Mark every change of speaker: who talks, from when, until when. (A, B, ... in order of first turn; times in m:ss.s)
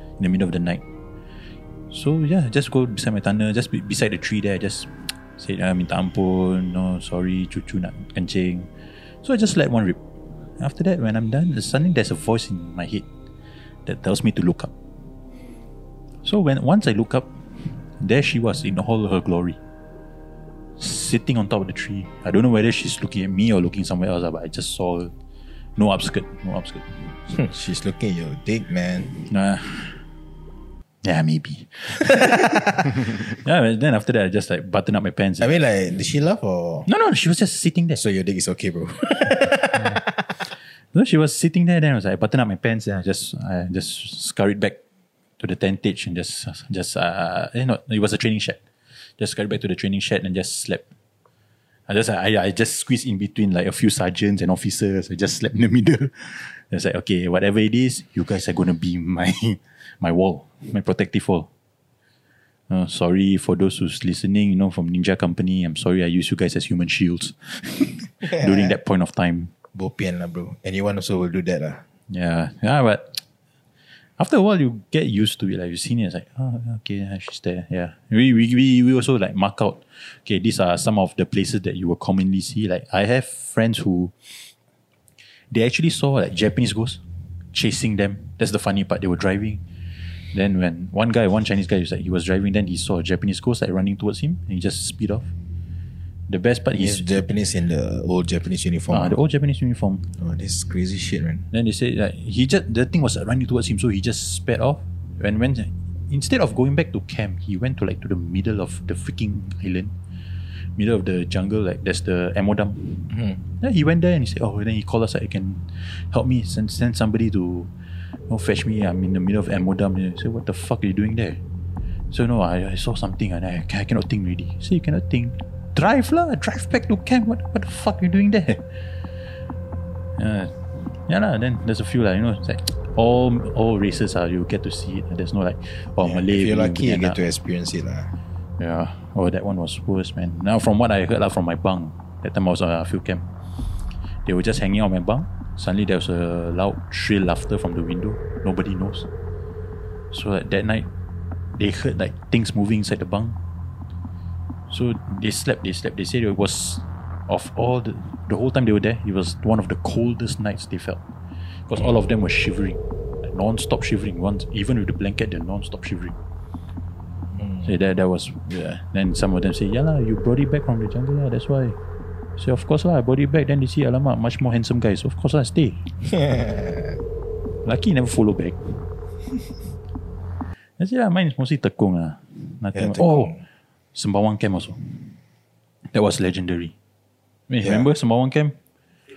0:00.2-0:00.8 A
0:01.9-0:08.7 A
0:09.2-0:10.0 A
0:10.6-0:13.1 A
0:13.8-0:14.7 A
0:16.2-0:19.6 A
0:20.8-0:25.1 A
0:25.8-0:27.2 A
0:27.3-0:29.2 B
0:29.3-0:30.0 A
0:31.0-0:35.6 A
0:35.4-0:36.9 B
0:36.9-0:38.0 A
0:38.0-0:40.3 B
0:39.7-0:40.0 A
0:40.9-0:44.8 A
0:45.4-0:48.6 A
0:49.2-0:50.9 A
0:51.9-1:01.5 A
1:02.7-1:09.5 A
1:08.2-1:08.8 B
1:09.7-1:11.8 B
1:12.1-1:13.2 A
1:14.2-1:24.3 A
1:25.5-1:27.0 A
1:27.5-1:29.6 A
1:30.3-1:35.3 A
1:36.3-1:37.2 A
1:36.8-1:39.2 B
1:38.9-1:40.1 A
1:40.2-1:41.5 B
1:41.5-1:49.9 A
1:50.8-1:57.7 A
1:53.1-1:53.4 B
1:58.3-2:01.4 A
2:02.1-2:08.6 A
2:10.2-2:17.2 A
2:16.0-2:18.1 B
2:18.6-2:23.3 A
2:24.2-2:29.1 A
2:30.1-2:30.9 A
2:31.5-2:33.4 A
2:34.7-2:41.0 A
2:41.7-2:46.2 A
2:47.3-2:47.7 B
2:47.6-2:51.8 A
2:52.4-2:55.8 A
2:56.1-2:57.0 B
2:57.6-2:58.9 A
3:00.8-3:03.4 A
3:02.8-3:03.4 B
3:04.0-3:05.2 A
3:05.9-3:06.8 A
3:07.5-3:08.6 A